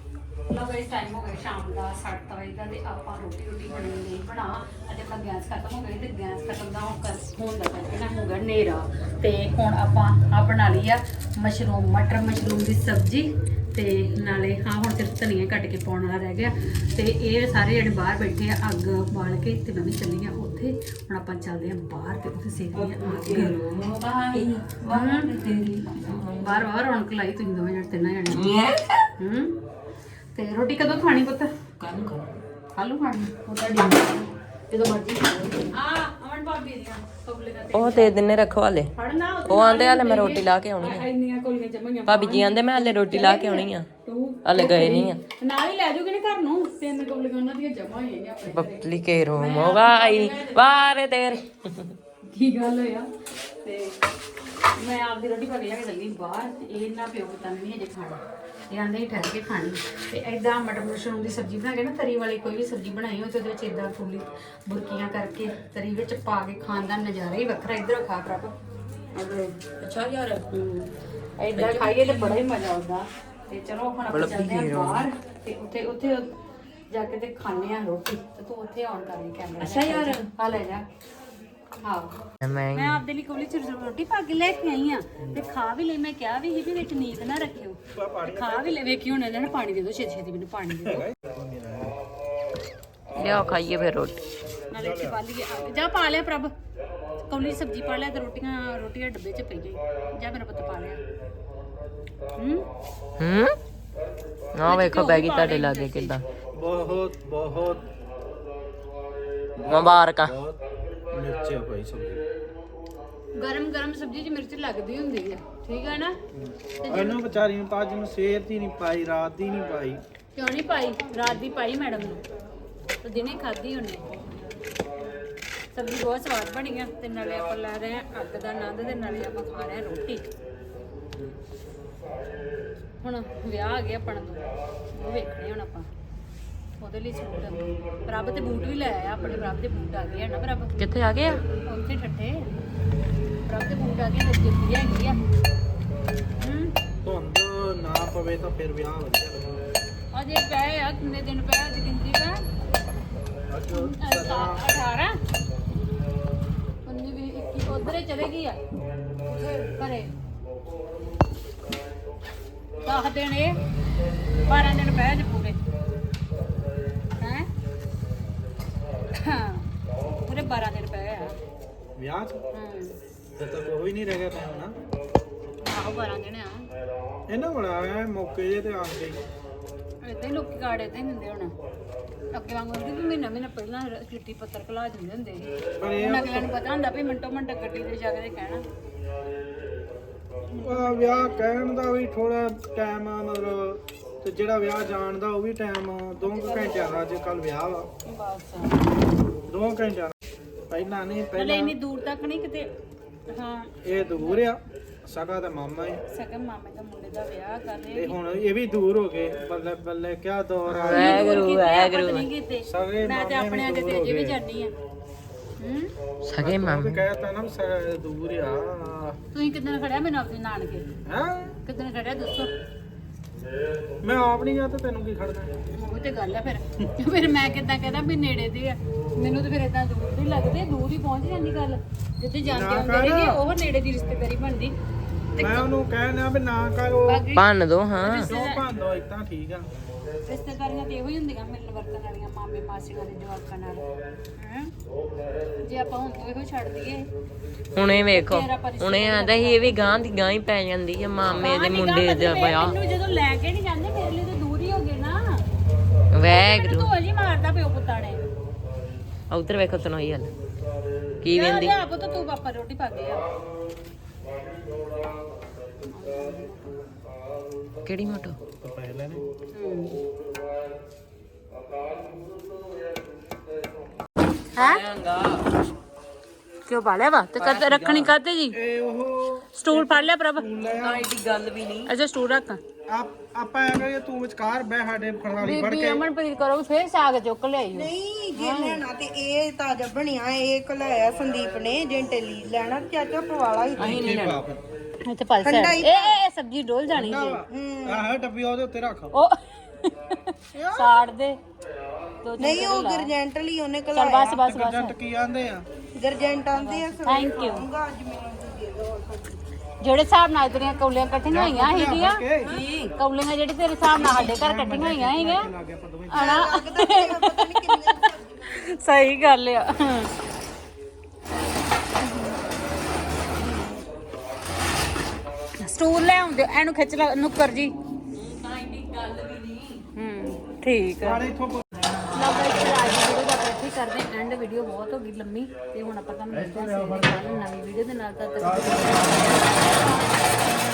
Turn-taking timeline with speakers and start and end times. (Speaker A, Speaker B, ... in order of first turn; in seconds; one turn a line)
Speaker A: 0.5-25.3
Speaker B: 22.7-26.6
Speaker A: 26.3-28.4
Speaker B: 28.3-29.1
Speaker A: 29.2-29.6
Speaker A: 30.3-31.5
Speaker B: 31.8-32.4
Speaker A: 32.7-38.2
Speaker B: 37.7-38.9
Speaker A: 38.9-50.6
Speaker B: 39.5-41.0
Speaker B: 42.1-43.9
Speaker B: 44.4-45.2
Speaker B: 48.5-51.9
Speaker A: 52.2-53.1
Speaker A: 53.6-54.0
Speaker A: 54.8-68.5
Speaker A: 69.1-69.6
Speaker B: 69.8-70.4
Speaker A: 70.4-76.3
Speaker B: 71.5-72.4
Speaker B: 74.1-75.1
Speaker A: 76.9-80.8
Speaker B: 79.6-80.3
Speaker A: 81.8-82.1
Speaker B: 82.4-83.0
Speaker A: 82.7-91.0
Speaker C: 87.9-88.8
Speaker C: 90.8-91.9
Speaker B: 93.2-94.2
Speaker A: 94.7-96.5
Speaker C: 94.7-95.2
Speaker A: 97.2-101.0
Speaker A: 102.4-102.7
Speaker B: 103.2-103.5
Speaker B: 104.5-106.2
Speaker A: 104.7-106.2
Speaker C: 106.5-107.8
Speaker C: 109.6-110.6
Speaker B: 109.7-110.3
Speaker C: 111.1-112.2
Speaker A: 113.3-116.2
Speaker C: 116.3-120.0
Speaker A: 116.8-117.2
Speaker A: 120.3-122.2
Speaker A: 123.0-124.0
Speaker A: 125.7-130.2
Speaker A: 133.0-135.9
Speaker A: 136.8-140.7
Speaker B: 140.8-141.4
Speaker A: 141.6-142.5
Speaker A: 143.4-145.2
Speaker A: 146.4-146.7
Speaker C: 147.0-149.6
Speaker A: 150.1-152.4
Speaker C: 153.5-154.6
Speaker A: 153.7-155.2
Speaker A: 156.8-158.6
Speaker A: 159.3-160.1
Speaker A: 162.8-163.5
Speaker A: 164.4-165.6
Speaker A: 167.2-167.5
Speaker A: 169.2-169.7
Speaker A: 170.2-171.3
Speaker C: 172.0-172.4
Speaker A: 172.5-172.9
Speaker C: 173.4-174.7
Speaker A: 175.6-176.7
Speaker C: 177.3-179.2
Speaker A: 180.0-181.5
Speaker A: 182.3-188.6
Speaker C: 185.8-186.5
Speaker A: 190.5-191.4
Speaker C: 190.6-197.9
Speaker A: 196.2-197.1
Speaker A: 198.1-198.9
Speaker C: 199.5-200.1
Speaker C: 200.7-201.7
Speaker A: 201.3-202.7
Speaker A: 203.3-204.4
Speaker C: 203.8-206.0
Speaker A: 206.1-208.2
Speaker C: 207.9-211.2
Speaker B: 210.7-212.2
Speaker A: 210.9-214.7
Speaker C: 212.7-214.4
Speaker A: 215.6-215.9
Speaker B: 216.2-217.0
Speaker C: 216.4-219.2
Speaker A: 219.3-220.8
Speaker C: 221.1-221.5
Speaker A: 221.6-222.5
Speaker C: 224.0-225.5
Speaker A: 225.7-234.7
Speaker C: 232.5-233.4
Speaker A: 235.3-235.7
Speaker C: 235.4-237.3
Speaker A: 237.1-237.5
Speaker B: 237.3-238.3
Speaker A: 238.0-238.6
Speaker C: 238.2-239.7
Speaker A: 240.2-244.7
Speaker A: 245.6-247.1
Speaker B: 247.7-252.8
Speaker A: 248.1-250.0
Speaker A: 251.3-255.4
Speaker B: 256.1-256.9
Speaker A: 256.3-258.2
Speaker B: 259.3-260.3
Speaker B: 261.2-261.8
Speaker A: 261.3-263.2
Speaker A: 265.9-266.8
Speaker B: 267.8-268.4
Speaker C: 268.6-269.2
Speaker A: 269.5-270.0
Speaker A: 274.6-274.8
Speaker B: 274.6-275.5
Speaker A: 276.6-278.6
Speaker B: 277.4-278.1
Speaker C: 278.5-281.1
Speaker A: 279.5-280.4
Speaker B: 280.7-281.9
Speaker A: 281.9-282.6
Speaker C: 282.9-286.0
Speaker A: 285.4-288.8
Speaker D: 287.7-294.1
Speaker B: 293.8-294.4
Speaker C: 293.8-294.6
Speaker A: 295.0-297.4
Speaker D: 295.4-296.2
Speaker C: 296.9-299.1
Speaker D: 297.5-298.0
Speaker A: 299.1-301.4
Speaker D: 300.5-300.9
Speaker A: 302.2-303.1
Speaker D: 302.4-304.4
Speaker A: 303.9-304.9
Speaker C: 304.4-305.6
Speaker D: 305.9-309.4
Speaker A: 306.5-307.6
Speaker A: 309.8-315.5
Speaker C: 311.3-312.6
Speaker C: 313.9-316.4
Speaker A: 316.1-320.1
Speaker D: 316.1-318.4
Speaker A: 322.0-322.4
Speaker A: 325.6-327.7
Speaker B: 328.1-329.8
Speaker A: 329.9-331.2
Speaker C: 331.0-331.7
Speaker A: 332.1-340.3
Speaker C: 336.3-337.4
Speaker C: 338.4-339.6